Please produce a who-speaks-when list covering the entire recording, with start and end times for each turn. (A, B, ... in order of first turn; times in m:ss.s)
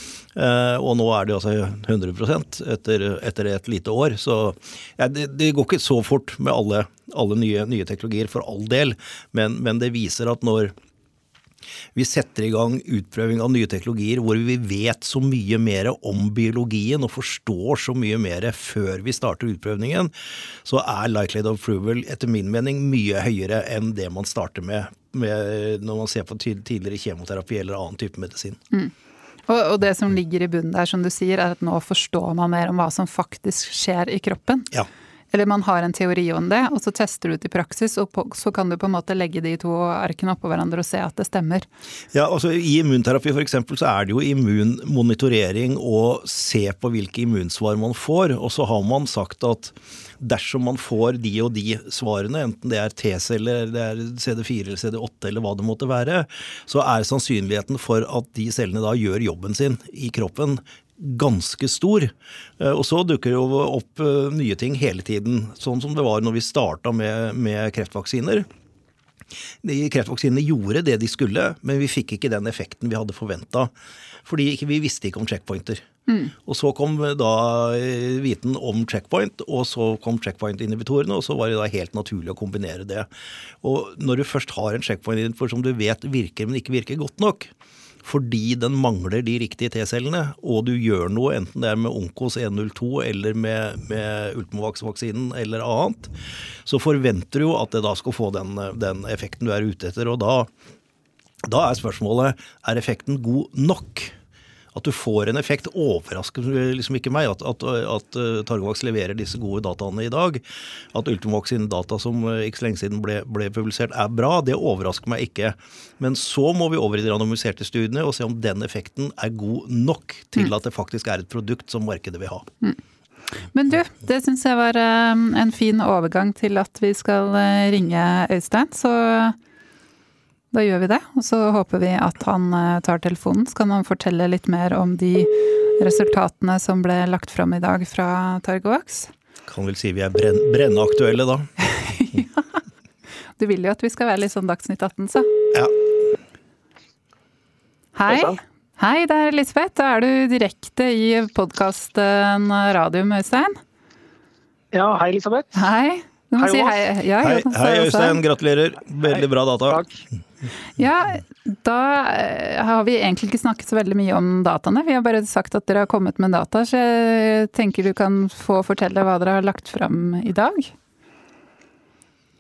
0:00.3-0:10.7 A
0:11.9-0:20.1 A
0:20.6-0:28.6 A
0:29.5-0:34.7 B
0:35.3-0:41.7 B
0:42.1-1:08.4 A
1:09.6-1:13.7 A
1:14.2-1:15.8 A
1:16.1-1:16.3 B
1:16.4-1:23.1 A
1:23.6-1:27.5 A
1:28.0-1:36.1 A
1:36.6-1:40.5 A
1:41.4-1:44.1 A
1:44.7-2:02.4 A
2:03.5-2:09.4 B
2:10.5-2:19.1 B
2:19.5-2:21.5 A
2:21.6-2:22.5 B
2:23.4-2:25.3 B
2:27.9-2:33.6 B
2:28.1-2:28.3 C
2:34.7-2:35.6 C
2:35.5-2:38.2 B
2:36.4-2:36.8 C
2:37.2-2:39.8 A
2:39.1-2:40.0 C
2:40.8-2:50.7 B